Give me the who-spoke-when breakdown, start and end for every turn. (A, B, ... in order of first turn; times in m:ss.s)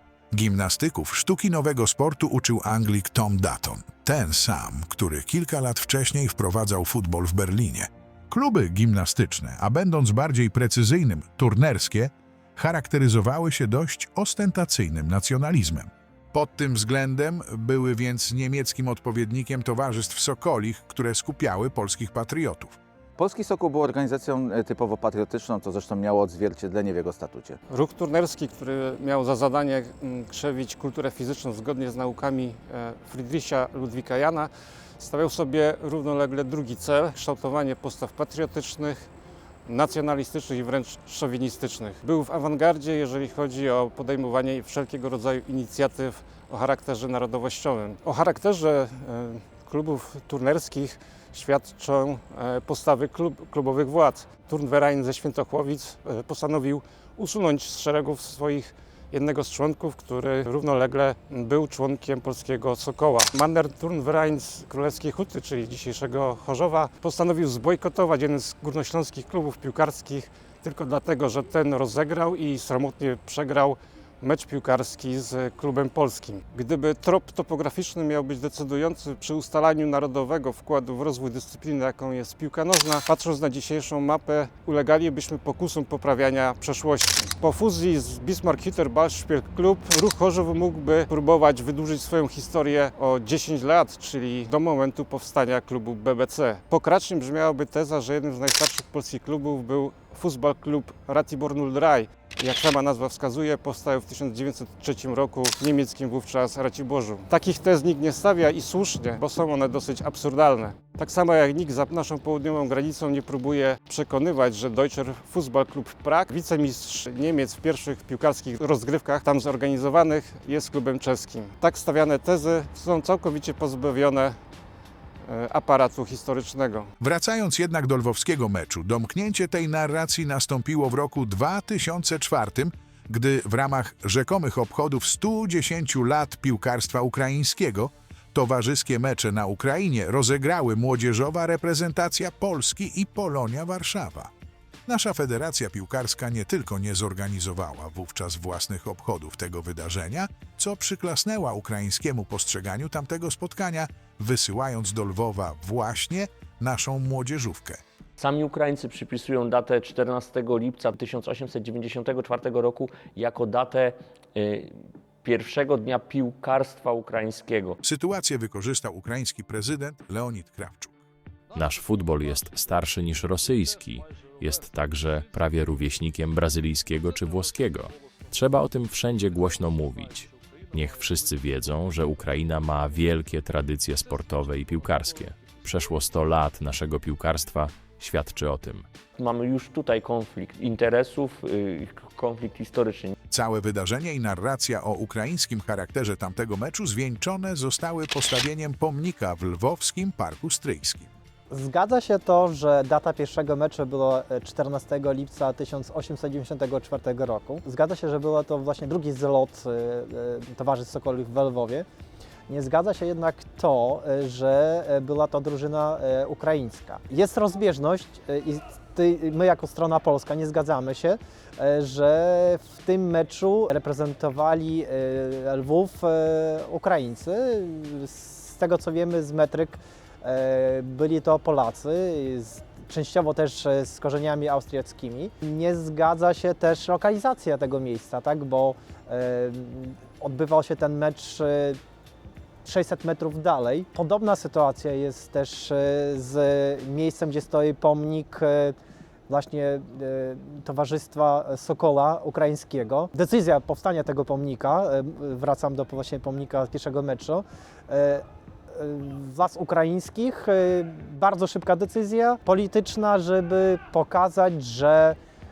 0:00.3-0:22.8 A
0:23.2-0:27.6 B
0:27.7-0:39.1 C
0:39.6-2:04.4 C
2:05.2-2:06.9 C
2:07.0-2:24.3 A
2:24.8-2:37.8 A
2:38.2-2:47.8 D
2:47.8-2:51.0 A
2:51.5-3:08.8 E
3:09.2-3:13.1 D
3:13.3-3:21.1 A
3:21.5-3:31.8 F
3:32.5-4:01.8 F
4:02.6-4:08.8 F
4:09.3-4:25.2 F